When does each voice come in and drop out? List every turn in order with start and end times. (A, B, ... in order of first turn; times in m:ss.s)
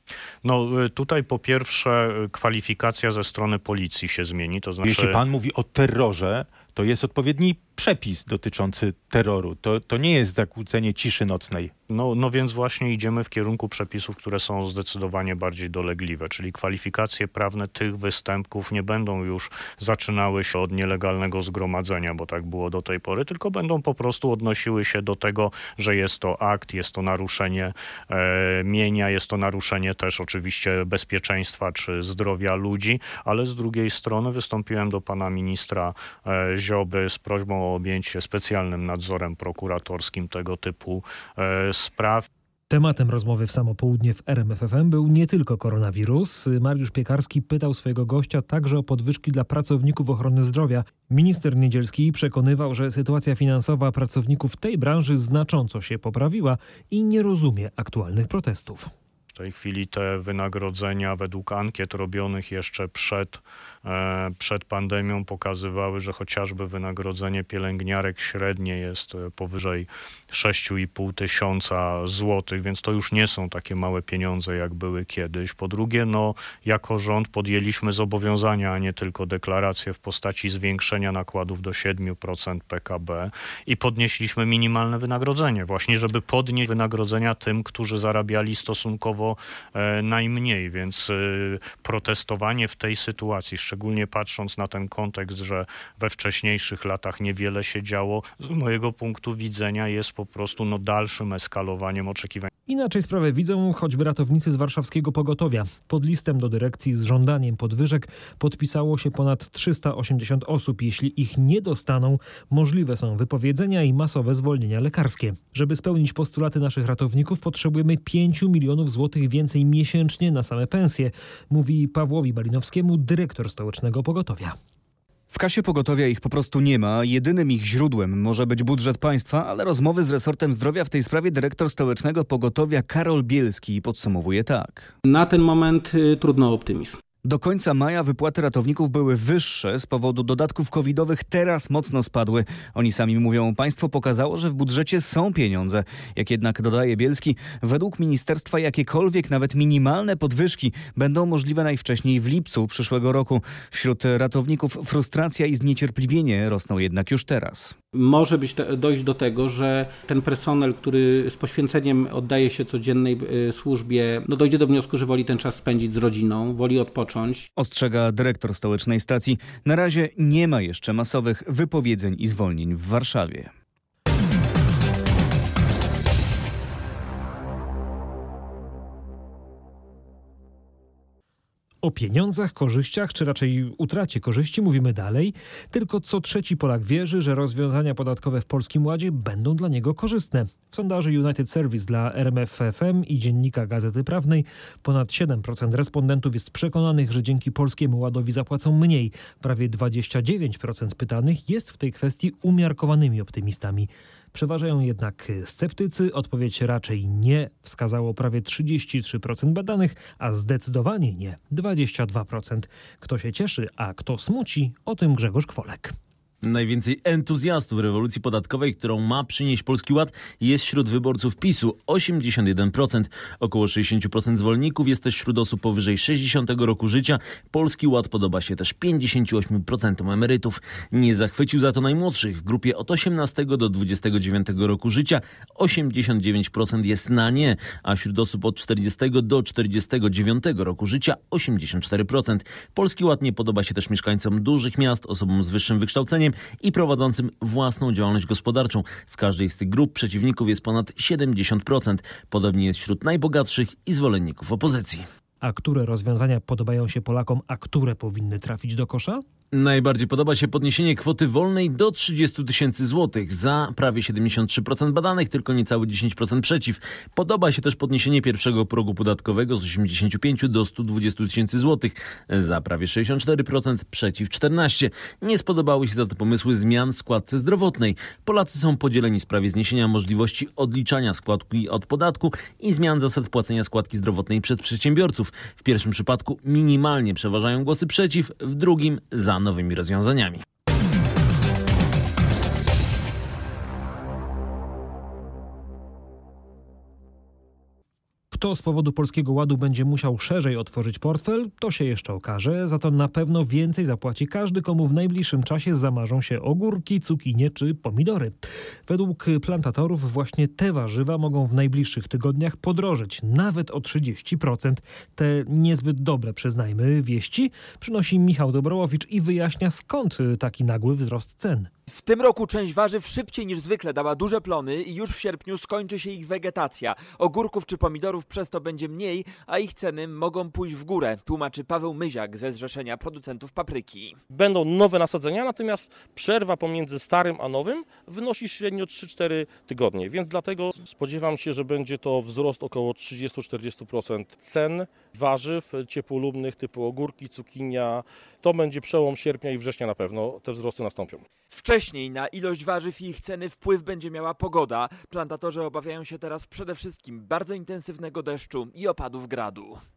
0:00.4-0:05.2 A
0:04.8-0:11.7 B
0:11.9-0:42.3 A
0:42.7-0:58.9 C
0:59.3-1:42.5 A
1:42.7-2:04.5 C
2:05.3-2:14.9 D
2:15.0-2:17.0 E
2:17.2-2:37.7 D
2:38.0-2:47.5 E
2:47.6-2:53.5 D
3:01.8-3:36.0 C
3:36.4-4:15.1 F
4:15.4-4:19.2 C
4:19.5-4:50.4 F
4:58.3-5:21.7 C
5:21.9-5:34.2 G
5:34.3-5:51.2 H
5:51.5-5:59.8 G